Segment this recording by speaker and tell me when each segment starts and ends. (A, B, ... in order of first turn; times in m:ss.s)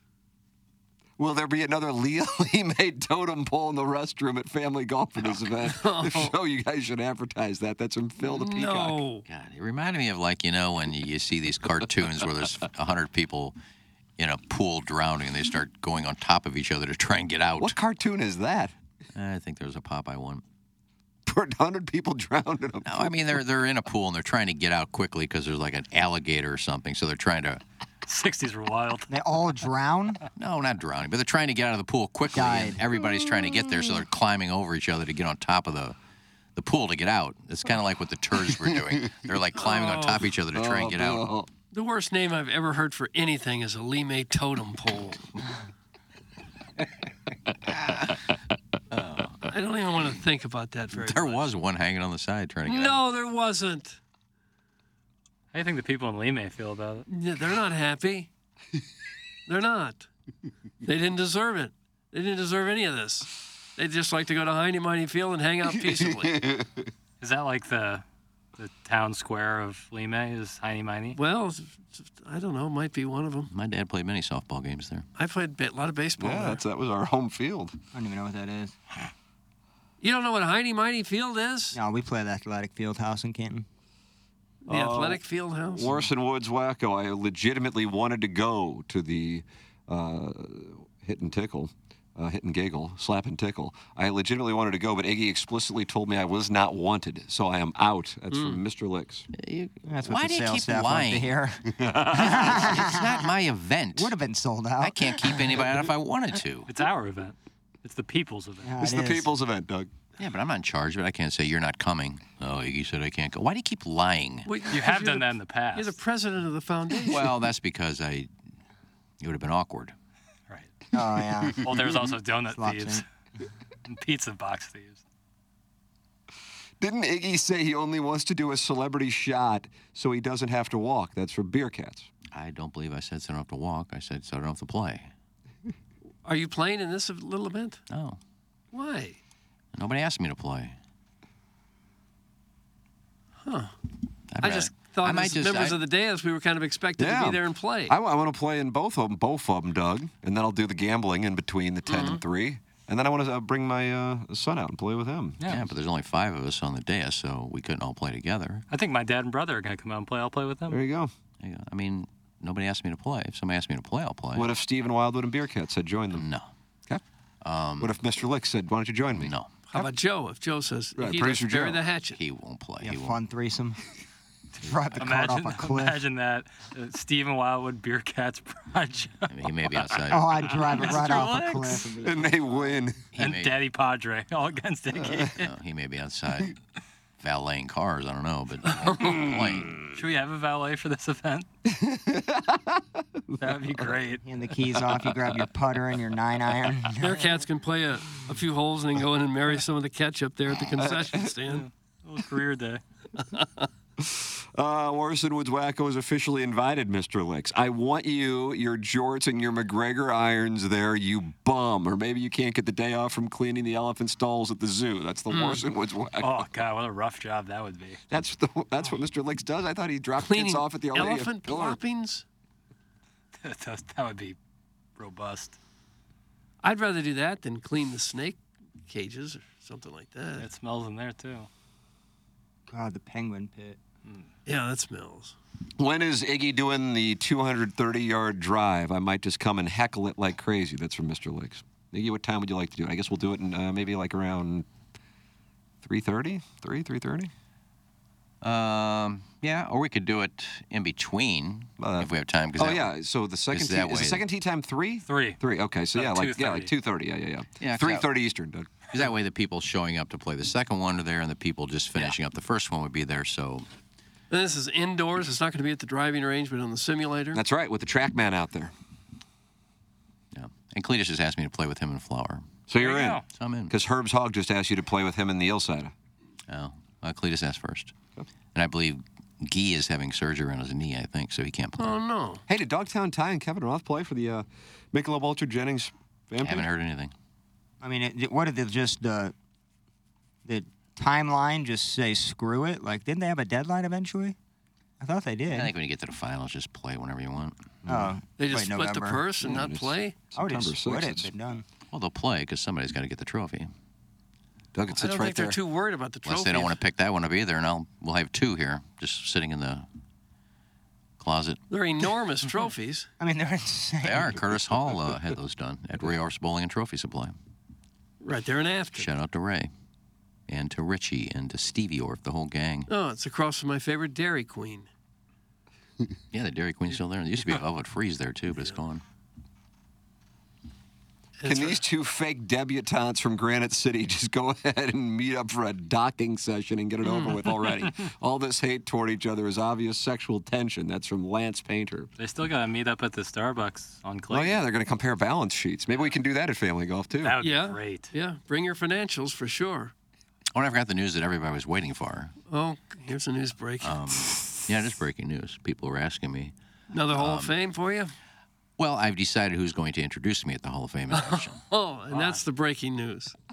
0:01.2-0:09.0 A
0:05.6-0:06.3 B
0:08.2-0:09.2 B
0:09.3-0:13.6 C
0:14.2-0:17.8 C
0:17.6-0:18.8 A
0:19.2-0:20.4 C
0:21.3-0:23.2 A
0:22.8-0:27.6 C
0:28.1-0:29.1 D
0:29.1-0:30.2 E
0:30.4-0:36.0 C
0:32.4-0:32.8 E
0:36.6-0:41.3 C
0:38.6-0:39.2 A
0:39.6-0:40.3 B
0:40.5-0:41.5 A
0:41.7-0:45.2 B
0:48.9-0:49.5 C
0:49.5-0:51.4 B
0:50.9-0:53.0 C
0:52.6-0:54.0 B
0:55.5-0:57.1 D
0:57.1-0:58.3 B
0:59.5-1:00.1 B
1:00.8-1:06.5 B
1:05.8-1:06.9 A
1:07.2-1:08.0 D
1:08.6-1:11.2 D
1:11.2-1:13.5 B
1:13.5-1:15.1 C
1:15.2-1:16.6 B
1:16.2-1:17.8 A
1:17.9-1:18.8 E
1:20.0-1:21.8 B
1:21.7-1:23.7 E
1:24.7-1:26.1 B
1:24.7-1:39.3 A
1:38.3-1:38.6 B
1:39.3-1:41.4 C
1:39.9-1:43.3 E
1:41.8-1:42.8 A
1:42.2-1:44.1 C
1:44.0-1:45.6 E
1:44.8-1:46.7 C
1:46.7-1:48.7 D
1:48.6-1:49.3 E
1:48.8-1:49.9 A
1:50.2-1:54.5 C
1:54.5-1:57.3 B
1:54.7-1:56.0 D
1:57.1-1:58.3 C
1:59.2-2:00.0 C
2:00.9-2:01.9 E
2:01.6-2:03.0 D
2:02.5-2:03.0 E
2:03.9-2:05.0 D
2:06.8-2:12.1 A
2:12.3-2:15.1 C
2:16.2-2:17.8 B
2:17.9-2:18.2 C
2:18.7-2:19.2 B
2:19.8-2:20.8 C
2:23.4-2:23.7 B
2:24.3-2:25.8 C
2:24.4-2:27.9 B
2:27.0-2:35.4 A
2:31.9-2:32.2 B
2:35.4-2:35.7 D
2:35.5-2:38.6 C
2:38.7-2:40.8 D
2:40.7-2:41.1 A
2:41.4-2:44.5 C
2:44.4-2:46.3 A
2:46.1-2:46.5 C
2:47.4-2:47.9 C
2:47.8-2:49.8 A
2:49.2-2:49.5 C
2:49.7-2:52.2 B
2:51.0-2:51.8 A
2:52.1-2:53.2 C
2:52.8-2:53.8 E
2:54.6-2:56.0 E
2:55.0-2:59.3 D
2:59.3-3:00.6 C
3:00.1-3:02.8 E
3:00.6-3:01.8 D
3:02.0-3:03.0 A
3:03.1-3:03.6 C
3:03.2-3:05.5 D
3:05.4-3:06.6 C
3:07.2-3:09.8 C
3:08.8-3:09.1 B
3:09.9-3:11.5 D
3:11.7-3:13.9 A
3:13.4-3:14.2 D
3:14.2-3:17.2 E
3:17.0-3:21.7 B
3:20.8-3:21.3 A
3:21.5-3:22.8 D
3:23.3-3:23.7 B
3:24.0-3:36.5 A
3:35.3-3:35.6 B
3:36.2-3:38.0 D
3:38.1-3:41.8 A
3:40.2-3:42.2 B
3:43.4-3:44.4 D
3:45.0-3:45.6 D
3:46.6-3:50.5 B
3:50.4-3:51.5 D
3:52.7-3:53.8 E
3:54.5-3:55.4 B
3:55.8-4:04.7 A
4:05.8-4:07.3 A
4:08.4-4:12.9 C
4:11.8-4:18.7 A
4:13.5-4:14.2 C
4:15.1-4:15.4 D
4:16.0-4:16.7 D
4:17.6-4:18.1 C
4:18.9-4:23.7 C
4:24.3-4:27.4 B
4:27.3-4:28.7 A
4:30.3-4:32.5 C
4:32.7-4:35.9 A
4:32.8-4:33.2 D
4:33.3-4:33.7 C
4:36.5-4:37.9 C
4:38.5-4:42.0 C
4:41.8-4:42.4 B
4:42.5-4:46.7 A
4:46.4-4:47.1 C
4:47.8-4:49.3 E
4:50.5-4:54.4 E
4:55.0-4:55.7 E
4:55.5-4:57.6 C
4:57.8-4:58.2 A
4:57.9-4:59.2 E
4:58.4-5:00.2 B
4:59.4-5:01.3 A
5:00.4-5:01.6 E
5:01.9-5:03.7 C
5:04.8-5:05.6 A
5:05.0-5:06.8 B
5:06.2-5:09.9 C
5:11.2-5:11.6 C
5:11.7-5:13.1 B
5:13.2-5:14.6 E
5:14.0-5:17.4 C
5:18.2-5:19.1 B
5:19.0-5:19.7 C
5:20.5-5:22.9 C
5:22.9-5:24.9 B
5:26.3-5:29.0 C
5:31.4-5:31.8 B
5:31.4-5:42.1 A
5:42.2-5:44.6 D
5:44.3-5:47.4 A
5:47.2-5:48.1 D
5:47.4-5:49.9 B
5:50.6-5:52.3 C
5:52.5-5:54.0 B
5:53.8-5:56.5 C
5:56.9-5:58.1 B
5:57.1-5:57.6 C
5:58.8-6:01.6 C
6:01.1-6:03.4 B